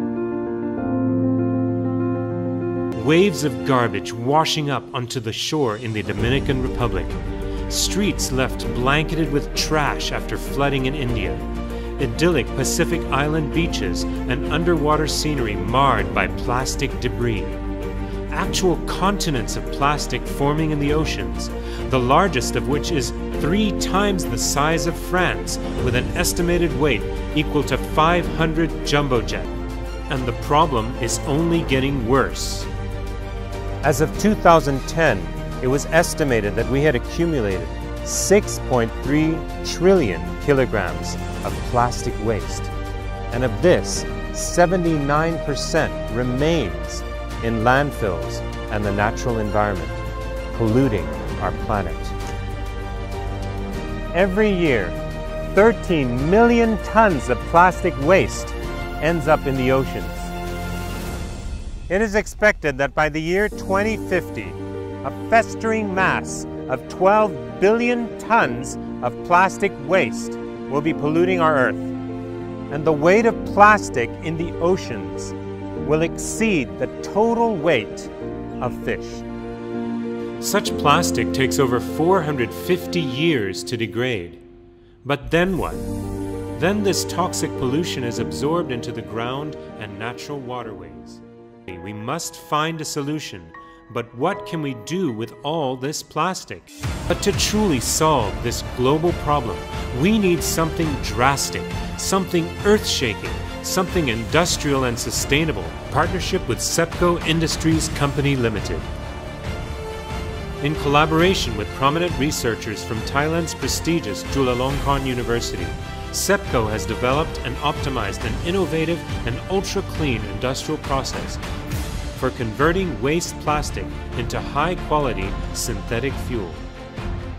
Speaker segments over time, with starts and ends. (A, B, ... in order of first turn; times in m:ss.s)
0:02.9-0:17.6 A
0:18.3-0:29.5 A
0:30.1-0:32.7 A
0:33.8-0:42.7 A
0:43.3-0:50.0 A
0:50.5-0:52.1 A
0:54.1-0:55.0 A
0:55.5-1:00.3 A
1:01.9-1:11.9 A
1:12.7-1:19.2 A
1:20.4-1:24.4 A
1:25.0-1:25.9 A
1:26.5-1:48.9 A
1:50.6-2:01.4 A
2:02.1-2:06.6 A